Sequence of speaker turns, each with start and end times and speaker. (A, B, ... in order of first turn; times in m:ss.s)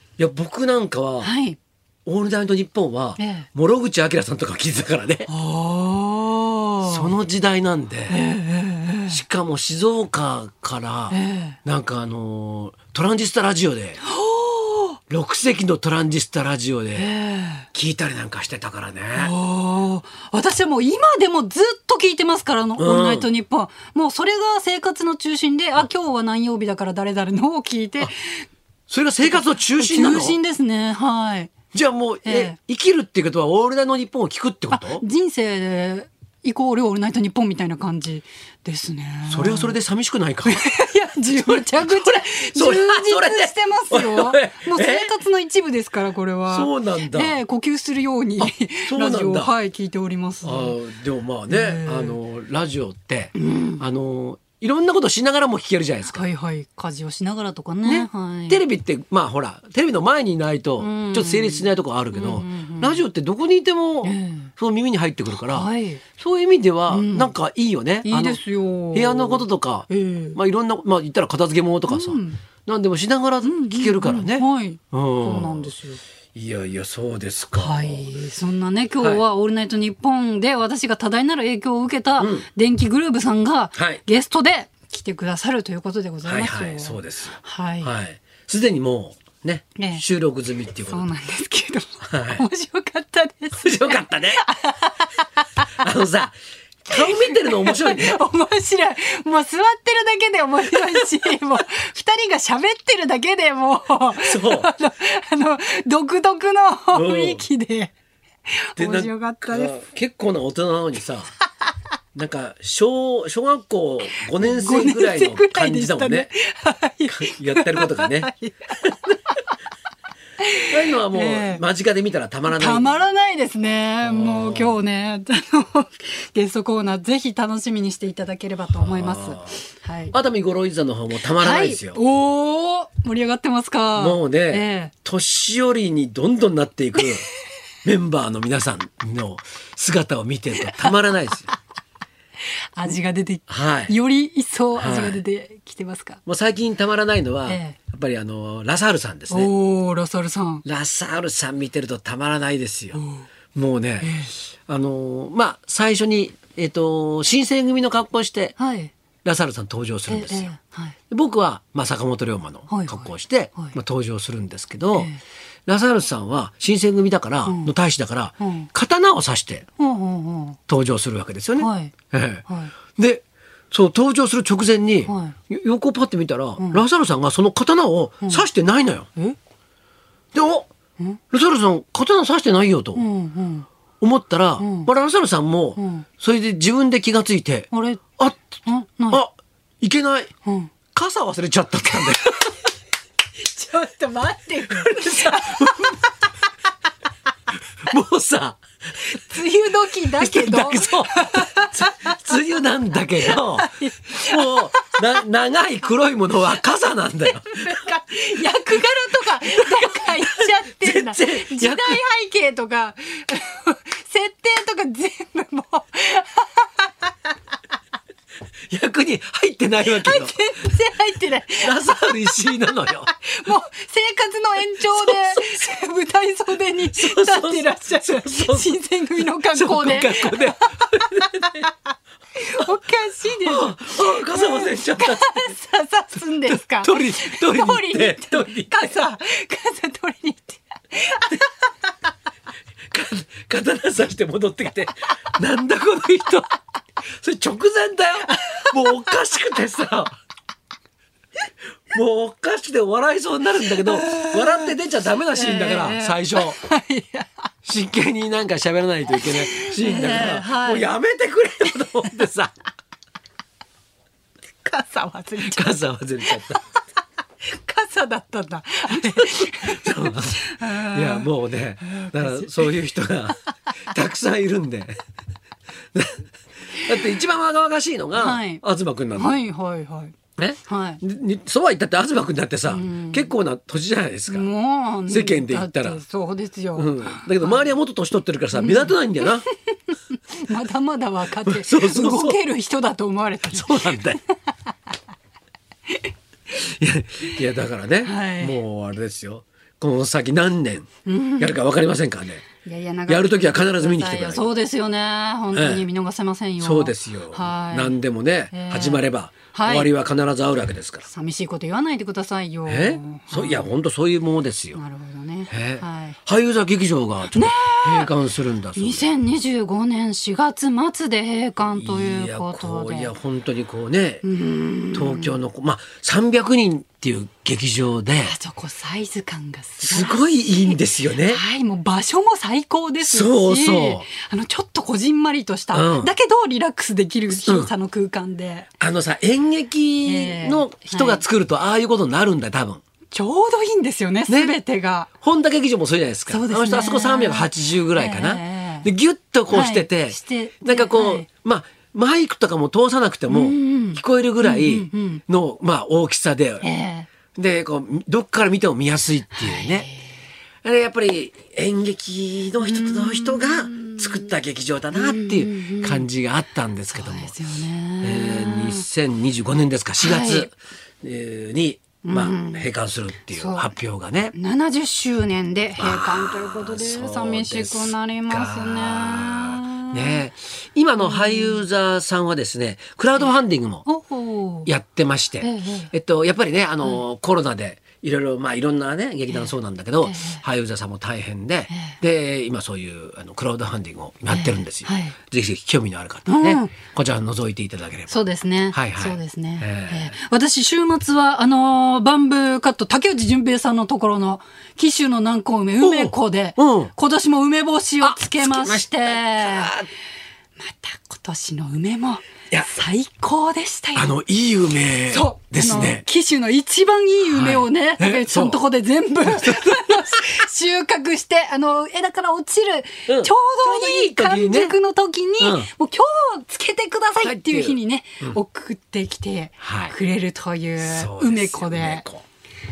0:00.2-0:01.3 A
0:01.2-0:01.6 B
0:02.1-0:05.3 A
0:03.2-0:03.5 B
0:05.3-0:07.1 B
0:06.8-0:08.2 A
0:08.1-0:09.2 B
0:09.1-0:14.0 A
0:11.1-0:11.6 B
0:14.0-0:15.0 B
0:15.1-0:17.1 A
0:17.0-0:17.7 B
0:17.7-0:19.3 A
0:19.2-0:28.5 B
0:22.8-0:23.3 A
0:28.9-0:30.4 A
0:29.2-0:31.6 B
0:31.7-0:35.0 A
0:32.2-0:32.6 B
0:34.7-0:39.8 B
0:39.3-0:45.1 A
0:40.4-0:50.8 B
0:46.5-0:47.4 A
0:48.4-0:49.5 A
0:50.4-0:56.2 A
0:51.5-0:52.2 B
0:53.4-0:53.8 B
0:56.1-0:58.6 B
0:57.8-1:08.4 A
1:00.8-1:03.0 B
1:04.0-1:04.5 B
1:05.4-1:06.0 B
1:06.9-1:07.3 B
1:08.0-1:10.4 B
1:08.9-1:15.8 A
1:11.9-1:12.4 B
1:13.4-1:16.0 B
1:16.3-1:18.1 A
1:17.5-1:27.9 B
1:22.2-1:22.5 A
1:23.8-1:24.0 A
1:26.2-1:31.1 A
1:29.8-1:30.0 B
1:30.9-1:35.7 B
1:32.1-1:32.4 A
1:33.6-1:34.4 A
1:35.8-1:38.2 A
1:36.9-1:47.9 B
1:44.2-1:44.7 A
1:46.9-1:47.4 A
1:48.5-1:49.7 B
1:48.8-1:51.3 A
1:52.1-1:56.3 A
1:54.2-1:58.8 B
1:57.1-1:58.3 A
1:58.8-1:59.1 A
2:00.4-2:01.6 B
2:00.7-2:03.1 A
2:02.5-2:10.2 B
2:04.0-2:04.8 A
2:08.8-2:09.6 A
2:10.1-2:12.0 A
2:11.4-2:14.9 B
2:14.0-2:17.3 A
2:17.8-2:21.5 A
2:22.8-2:26.2 B
2:23.5-2:23.9 A
2:24.8-2:25.2 A
2:26.3-2:29.5 A
2:27.5-2:27.8 B
2:29.3-2:30.6 B
2:30.6-2:33.0 A
2:33.0-2:33.2 B
2:33.6-2:38.6 A
2:34.0-2:34.3 B
2:38.6-2:38.9 B
2:39.2-2:40.5 A
2:40.1-2:41.0 B
2:41.1-2:45.1 A
2:42.7-2:43.8 B
2:45.7-2:49.7 A
2:47.5-2:47.7 B
2:48.4-2:48.7 B
2:49.8-2:50.6 B
2:50.7-2:59.1 A
2:51.6-2:51.9 B
2:52.5-2:52.7 B
2:55.1-2:55.4 B
2:56.6-2:56.8 B
3:00.3-3:00.7 A
3:01.3-3:03.0 A
3:03.0-3:03.7 B
3:04.0-3:08.4 A
3:04.6-3:04.9 B
3:05.8-3:06.1 B
3:07.7-3:08.1 B
3:08.6-3:09.2 B
3:09.1-3:10.3 A
3:10.4-3:10.7 B
3:10.9-3:12.5 A
3:11.9-3:12.2 B
3:13.4-3:16.3 B
3:14.7-3:16.0 A
3:17.8-3:18.6 A
3:19.1-3:22.2 B
3:20.1-3:27.8 A
3:23.2-3:25.0 B
3:27.4-3:37.1 B
3:29.6-3:32.0 A
3:38.7-3:40.4 A
3:39.8-3:42.4 B
3:41.6-3:43.1 A
3:43.1-3:51.7 B
3:44.8-3:45.7 A
3:46.8-3:51.6 A
3:52.4-4:01.7 B
3:53.4-3:55.5 A
3:56.5-3:59.0 A
4:02.9-4:06.5 A
4:07.1-4:10.1 A
4:08.3-4:09.1 B
4:11.9-4:16.6 A
4:13.8-4:14.8 B
4:15.3-4:17.3 B
4:17.6-4:22.5 A
4:19.1-4:20.9 B
4:24.6-4:26.6 B
4:25.4-4:26.6 A
4:27.4-4:31.3 B
4:29.0-4:35.0 A
4:31.8-4:32.7 B
4:35.9-4:39.4 A
4:38.2-4:38.6 B
4:39.2-4:40.2 B
4:40.4-4:44.5 A
4:40.7-4:41.0 B
4:42.7-4:43.3 B
4:44.3-4:47.7 B
4:45.1-4:46.0 A
4:46.8-4:49.5 A
4:48.5-4:54.3 B
4:51.4-4:52.4 A
4:53.5-4:54.2 A
4:56.5-5:02.5 A
4:58.0-4:58.6 B
5:01.1-5:01.6 B
5:02.6-5:08.0 B
5:03.1-5:04.5 A
5:05.5-5:05.8 A
5:06.6-5:11.1 A
5:08.5-5:09.9 B
5:11.1-5:13.7 B
5:12.7-5:14.8 A
5:14.8-5:16.2 B
5:15.5-5:19.1 A
5:17.3-5:18.1 B
5:18.8-5:23.1 B
5:21.7-5:24.2 A
5:24.2-5:25.4 B
5:24.9-5:28.4 A
5:28.2-5:38.7 B
5:29.8-5:31.4 A
5:33.0-5:34.1 A
5:35.7-5:36.1 A
5:37.3-5:37.7 A
5:38.8-5:42.8 A
5:40.0-5:41.2 B
5:43.1-5:45.1 B
5:44.3-5:44.5 A
5:45.2-5:56.7 A
5:46.3-5:48.9 B
5:49.5-5:51.3 B
5:53.3-5:55.2 B
5:56.6-5:57.1 B
5:57.3-5:59.9 A
5:59.4-6:00.0 B
6:00.6-6:07.4 A
6:02.6-6:04.4 B
6:04.9-6:06.1 B
6:06.9-6:08.8 B
6:08.0-6:14.4 A
6:10.0-6:10.5 B
6:12.0-6:12.7 B
6:13.3-6:13.7 B
6:14.3-6:20.2 B
6:15.8-6:23.9 A
6:21.0-6:21.6 B
6:23.9-6:24.7 B
6:24.7-6:38.1 A
6:25.4-6:25.9 B
6:30.0-6:30.4 B
6:31.7-6:32.0 B
6:34.3-6:35.2 B
6:36.3-6:36.7 B
6:38.1-6:49.7 B
6:38.7-6:40.1 A
6:45.8-6:46.9 A
6:48.0-6:49.9 A
6:50.6-6:54.2 B
6:54.0-6:56.0 A
6:55.1-7:12.0 B
6:57.2-6:58.6 A
6:59.3-7:00.2 A
7:03.1-7:04.8 A
7:05.4-7:05.7 A
7:07.2-7:08.4 A
7:09.6-7:10.0 A
7:10.8-7:12.2 A